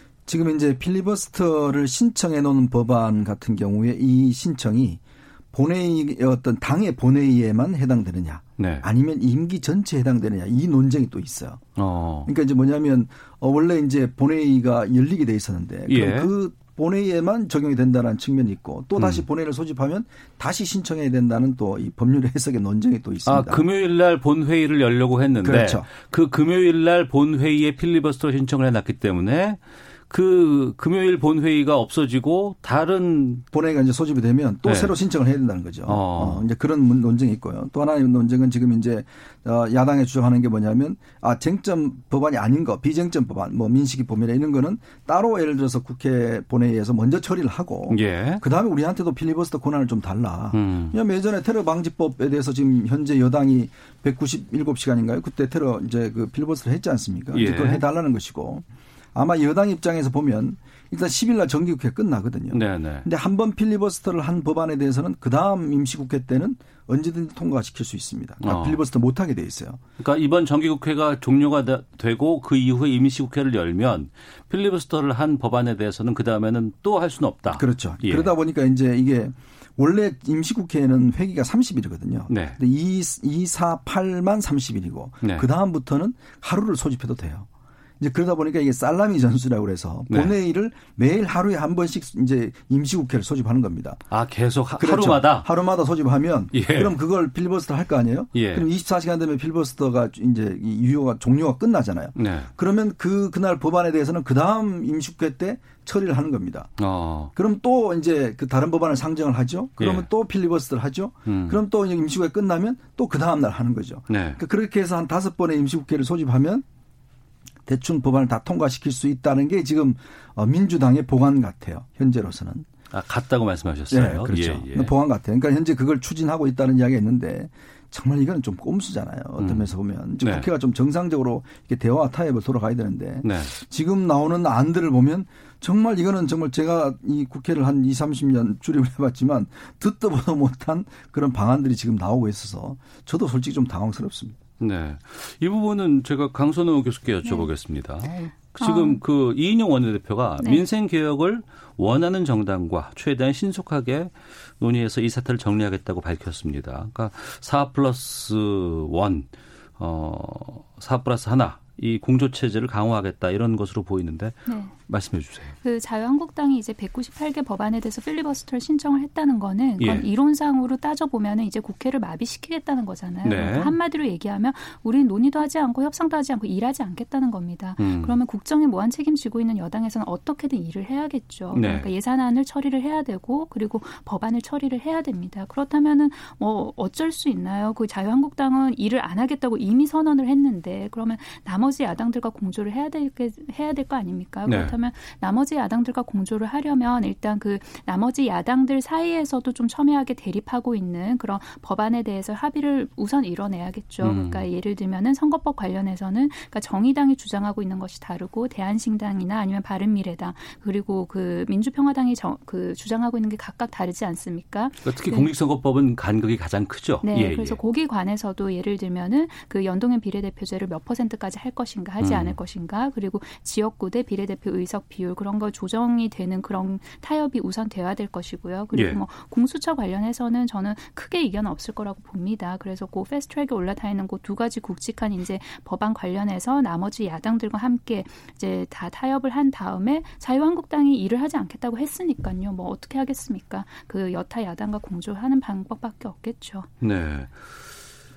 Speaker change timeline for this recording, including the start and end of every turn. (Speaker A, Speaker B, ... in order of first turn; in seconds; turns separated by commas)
Speaker A: 0.3-5.0, Speaker A: 5.5-11.6, Speaker B: 8.6-8.8, Speaker B: 11.8-12.3, Speaker A: 12.2-23.6, Speaker B: 15.9-16.3, Speaker B: 19.0-19.2, Speaker B: 23.2-33.4, Speaker A: 25.4-25.9, Speaker A: 33.5-69.8, Speaker B: 34.6-34.9, Speaker B: 35.9-36.4, Speaker B: 47.9-48.4, Speaker B: 50.5-51.0, Speaker B: 57.3-57.8, Speaker B: 62.5-63.1, Speaker B: 68.4-68.8, Speaker B: 70.0-78.3, Speaker A: 77.5-87.5, Speaker B: 82.3-82.6, Speaker A: 88.0-94.0, Speaker B: 94.1-95.5, Speaker A: 94.7-106.7, Speaker B: 96.5-96.9, Speaker B: 98.3-98.7, Speaker B: 102.2-102.5, Speaker B: 106.8-107.3, Speaker A: 107.3-116.6, Speaker B: 109.8-110.1, Speaker B: 111.2-111.6, Speaker B: 114.1-114.4, Speaker A: 117.7-122.7, Speaker B: 122.9-124.9, Speaker A: 123.9-144.4, Speaker B: 129.4-129.7, Speaker B: 130.2-130.5, Speaker B: 133.2-133.5, Speaker B: 144.6-165.6, Speaker C: 148.6-149.0, Speaker C: 164.5-164.7, Speaker C: 165.6-215.3, Speaker B: 169.8-170.1, Speaker B: 173.2-173.7, Speaker B: 177.8-178.2, Speaker B: 181.5-181.9, Speaker B: 194.4-194.7, Speaker B: 204.0-204.5, Speaker B: 214.8-217.6, Speaker C: 217.0-246.7, Speaker B: 222.0-222.4, Speaker B: 228.7-229.0, Speaker B: 246.8-247.7